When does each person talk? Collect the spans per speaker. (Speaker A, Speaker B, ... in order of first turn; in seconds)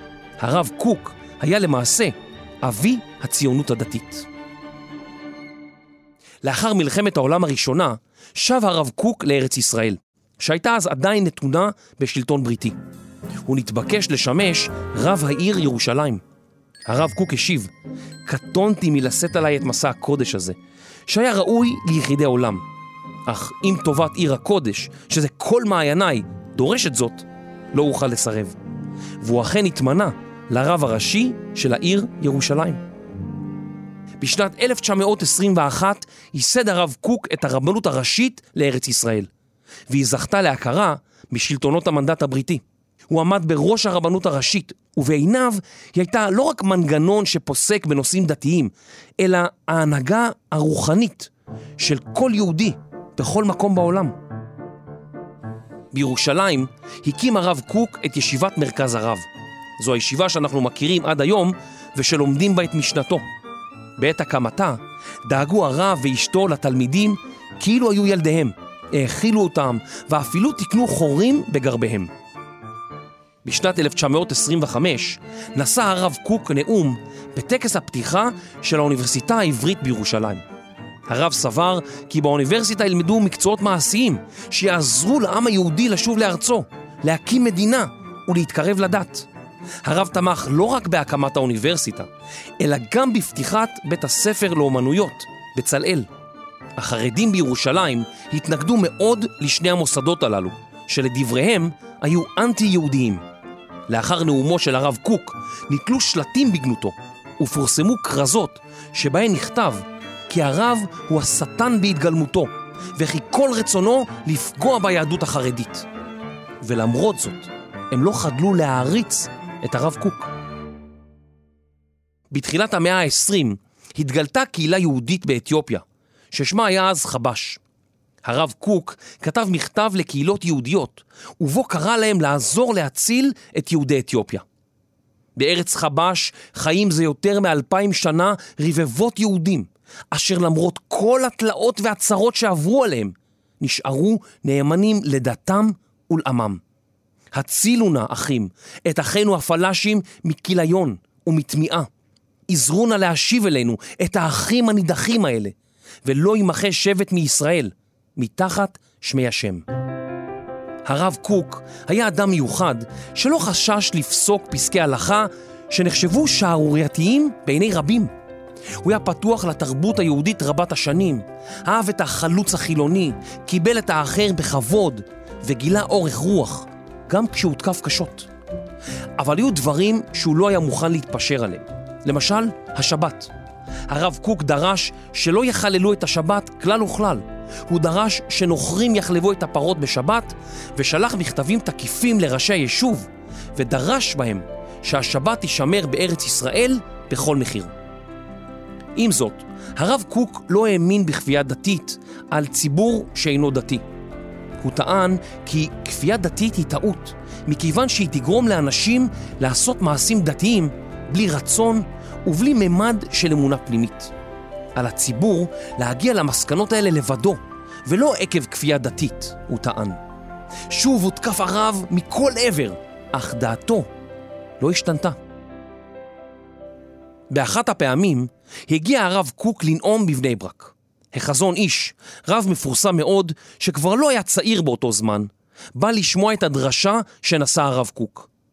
Speaker A: 0.4-4.3, 6.4-12.8, 13.5-16.2, 16.9-17.7, 18.3-22.6, 23.3-28.6, 29.2-32.8, 34.2-39.3, 39.9-54.1, 55.9-59.3, 59.8-63.2, 64.0-72.1, 73.5-80.4, 81.1-89.3, 89.8-92.1, 92.6-96.1, 96.8-103.2, 103.9-115.9, 116.6-120.3, 122.3-127.6, 128.2-134.4, 135.4-146.6, 147.3-151.9, 152.5-159.6, 160.9-168.1, 168.8-178.3, 179.2-183.3, 183.9-197.7, 199.0-203.8, 204.6-214.1, 214.8-220.0, 220.7-223.9, 224.6-225.2, 227.3-238.3